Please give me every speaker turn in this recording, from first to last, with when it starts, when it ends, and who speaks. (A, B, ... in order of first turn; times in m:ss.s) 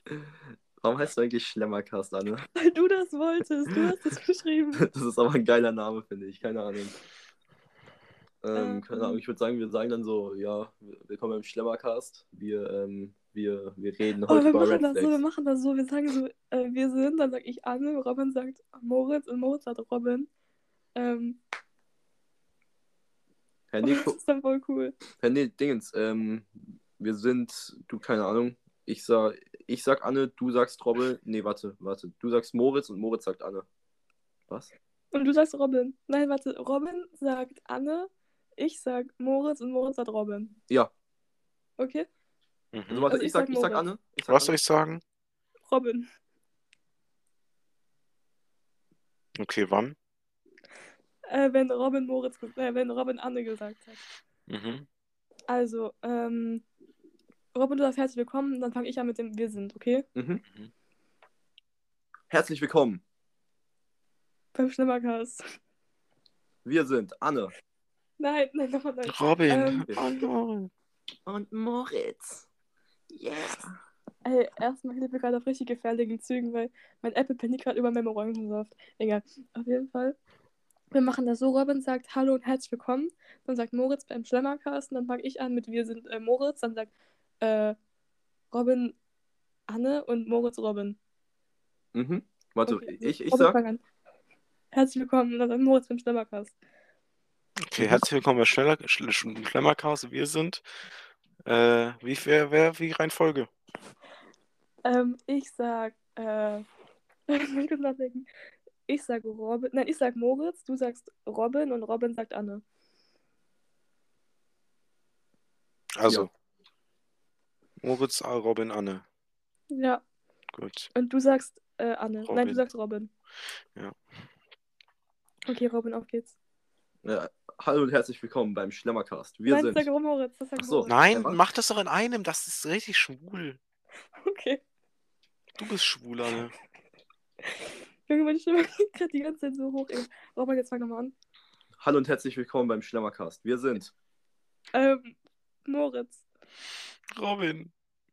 0:00.8-0:02.4 A
0:02.6-0:04.8 B
0:04.8-0:06.9 A
0:08.4-0:15.2 A
0:08.5-0:09.2 B
0:14.3-0:20.3 B
0:21.0-0:21.4 B
0:23.7-0:24.2 A
0:23.8-0:25.0 B
0:25.2-0:33.7 A
0:34.5-0:34.7 A
0:35.1-0:40.6 B
0:41.8-0:42.1 B
0:42.7-0:43.1 C
0:42.9-0:44.6 A
0:43.1-0:43.9 B
0:44.3-0:45.0 C
0:45.7-0:46.1 B
0:49.4-0:50.0 C
0:51.3-0:54.0 B
0:54.5-0:54.9 C
0:55.5-0:56.6 B
0:57.5-1:00.0 B
1:00.1-1:00.4 A
1:02.3-1:03.0 A
1:04.5-1:05.4 B
1:06.6-1:07.5 A
1:08.2-1:10.2 B
1:09.0-1:10.7 C
1:11.2-1:12.5 A
1:13.1-1:13.7 A
1:14.2-1:20.2 B
1:20.9-1:27.8 B
1:28.5-1:28.9 B
1:29.7-1:31.0 B
1:31.9-1:33.6 A
1:32.6-1:33.8 B
1:34.7-1:36.5 B
1:37.7-1:40.6 C
1:37.8-1:38.0 A
1:41.4-1:43.5 C
1:44.8-1:46.6 B
1:47.3-1:48.3 B
1:48.9-1:52.6 B
1:56.0-1:56.3 C
1:57.8-1:59.0 C
1:59.7-2:00.0 B
2:00.5-2:00.9 C
2:00.9-2:03.1 B
2:02.2-2:02.6 C
2:05.5-2:06.3 B
2:07.0-2:09.9 A
2:09.5-2:11.0 B
2:10.6-2:11.4 A
2:10.9-2:13.6 C
2:14.2-2:14.6 B
2:15.6-2:16.5 C
2:18.1-2:21.1 B
2:21.8-2:23.9 A
2:24.7-2:26.2 B
2:27.1-2:27.7 C